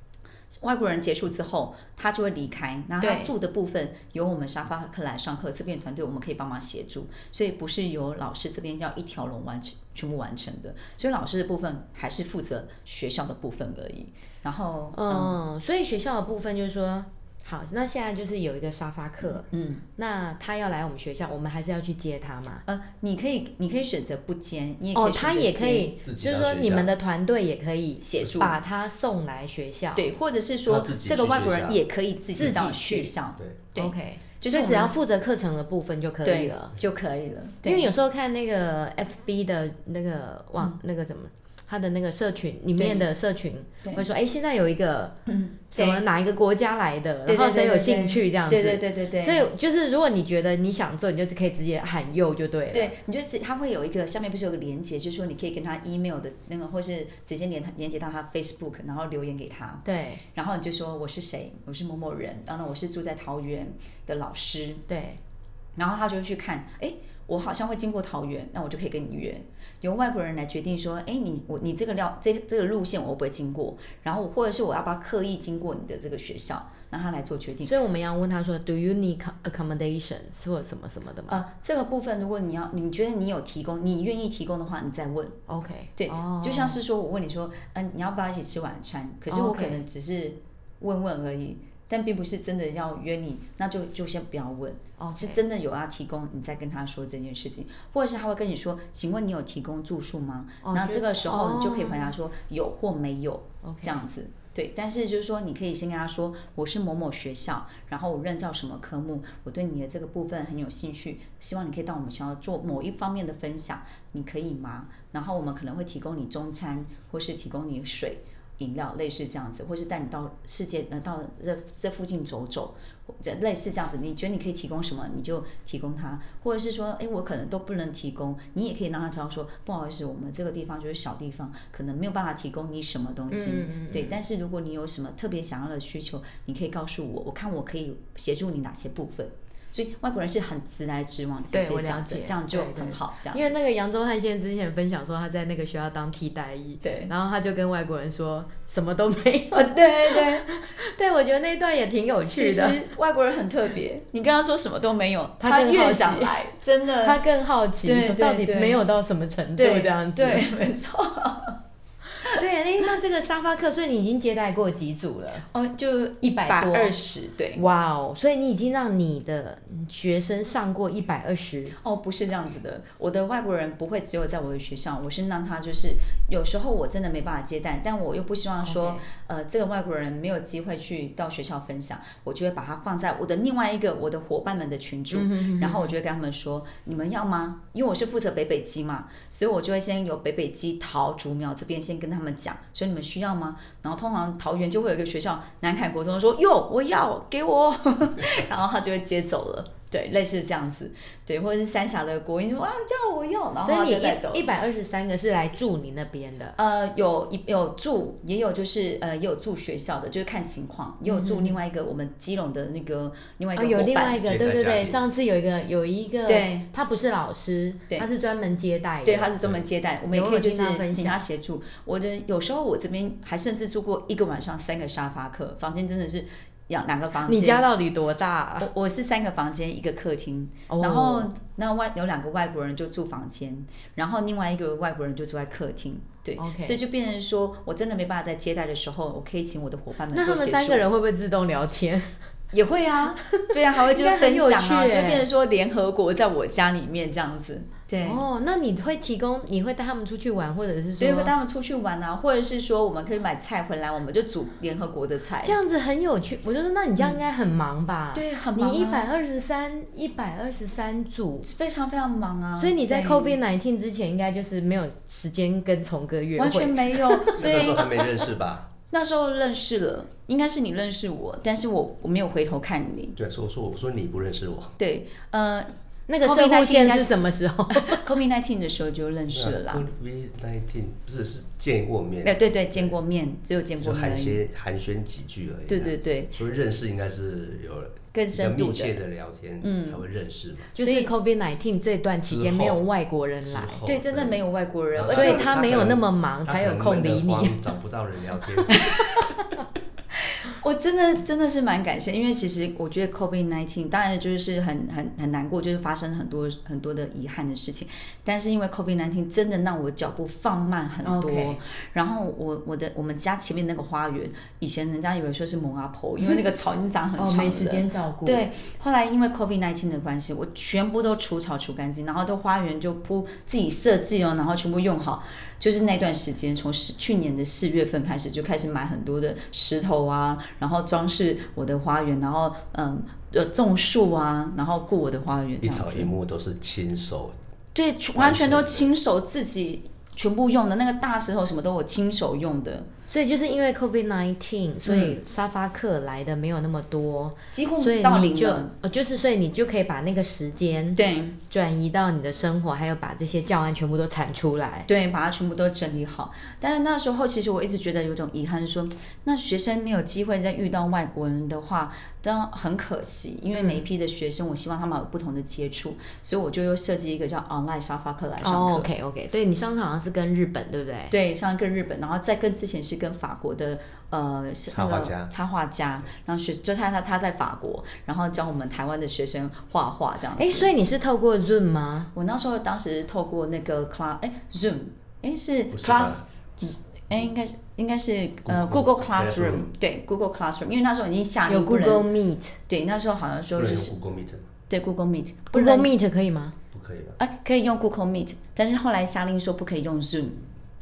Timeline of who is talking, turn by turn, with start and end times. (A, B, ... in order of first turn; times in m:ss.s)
0:00.5-0:15.4 A
0:03.0-0:03.3 B
0:14.9-0:22.6 B
0:19.2-0:19.8 A
0:22.6-0:25.9 A
0:24.9-0:30.0 B
0:26.0-0:26.9 C
0:28.0-0:28.6 A
0:29.9-0:34.9 A
0:30.7-0:31.8 C
0:32.3-0:33.1 B
0:33.8-0:36.7 B
0:36.2-0:37.9 A
0:37.6-0:45.2 B
0:42.8-0:43.0 A
0:45.3-0:46.0 A
0:45.7-0:52.9 B
0:47.2-0:49.5 A
0:52.7-1:04.8 A
0:59.8-1:00.2 B
1:04.9-1:05.2 B
1:05.8-1:17.7 A
1:17.6-1:21.4 B
1:21.3-1:25.4 A
1:25.5-1:26.8 B
1:26.0-2:23.5 A
1:29.3-1:29.8 B
1:35.0-1:35.4 B
1:40.6-1:42.1 B
1:43.6-1:44.0 B
2:13.3-2:14.2 B
2:21.5-2:32.8 B
2:26.8-2:27.1 A
2:29.5-2:30.5 A
2:32.3-2:37.2 A
2:35.4-2:36.3 B
2:37.0-2:40.5 B
2:37.8-2:38.8 A
2:39.6-2:41.6 A
2:42.2-2:45.4 B
2:45.5-2:47.6 A
2:46.4-2:46.9 B
2:47.5-2:51.8 B
2:51.8-3:24.5 A
2:58.6-2:59.0 B
3:05.1-3:05.9 B
3:23.6-3:26.6 B
3:26.6-3:34.2 A
3:31.0-3:31.6 B
3:33.6-3:39.3 B
3:34.2-3:35.0 C
3:36.3-3:36.6 A
3:39.0-3:47.6 A
3:40.1-3:41.2 B
3:47.2-3:48.7 B
3:48.6-4:00.8 A
3:50.7-3:51.3 B
3:56.4-3:56.8 B
4:00.1-4:02.1 B
4:02.5-4:08.2 A
4:03.3-4:05.2 B
4:08.0-4:11.3 B
4:11.0-4:15.6 A
4:15.4-4:21.5 B
4:18.1-4:19.1 A
4:21.4-4:23.4 A
4:22.6-4:27.4 B
4:26.4-4:28.0 A
4:27.3-4:28.7 C
4:28.9-4:33.2 A
4:33.2-4:34.7 C
4:34.8-4:37.2 A
4:36.1-4:38.0 B
4:37.7-4:39.8 A
4:39.3-4:43.0 C
4:42.2-4:44.4 A
4:43.8-4:50.7 C
4:45.7-4:46.3 A
4:48.1-4:49.0 A
4:49.6-4:50.0 A
4:50.7-4:53.8 B
4:50.8-4:51.1 A
4:52.3-4:52.8 C
4:53.4-4:54.4 C
4:53.8-4:55.5 A
4:54.9-4:59.1 C
4:55.1-4:57.6 B
5:00.4-5:36.1 A
5:11.0-5:11.6 B
5:17.2-5:18.4 B
5:35.6-5:37.3 C
5:37.7-5:42.9 A
5:38.2-5:38.9 C
5:43.1-5:54.9 B
5:44.8-5:45.2 A
5:47.5-5:48.7 A
5:51.0-5:51.4 A
5:54.9-6:08.9 A
6:03.5-6:03.8 B
6:08.4-6:11.1 B
6:11.1-6:20.7 A
6:14.7-6:15.3 C
6:20.3-6:22.1 B
6:22.1-6:32.1 A
6:25.7-6:26.2 C
6:28.4-6:29.7 C
6:31.5-6:32.6 B
6:32.7-6:34.0 A
6:33.6-6:34.4 C
6:34.7-6:35.9 A
6:35.5-6:36.5 B
6:36.7-6:37.2 C
6:37.2-6:40.4 A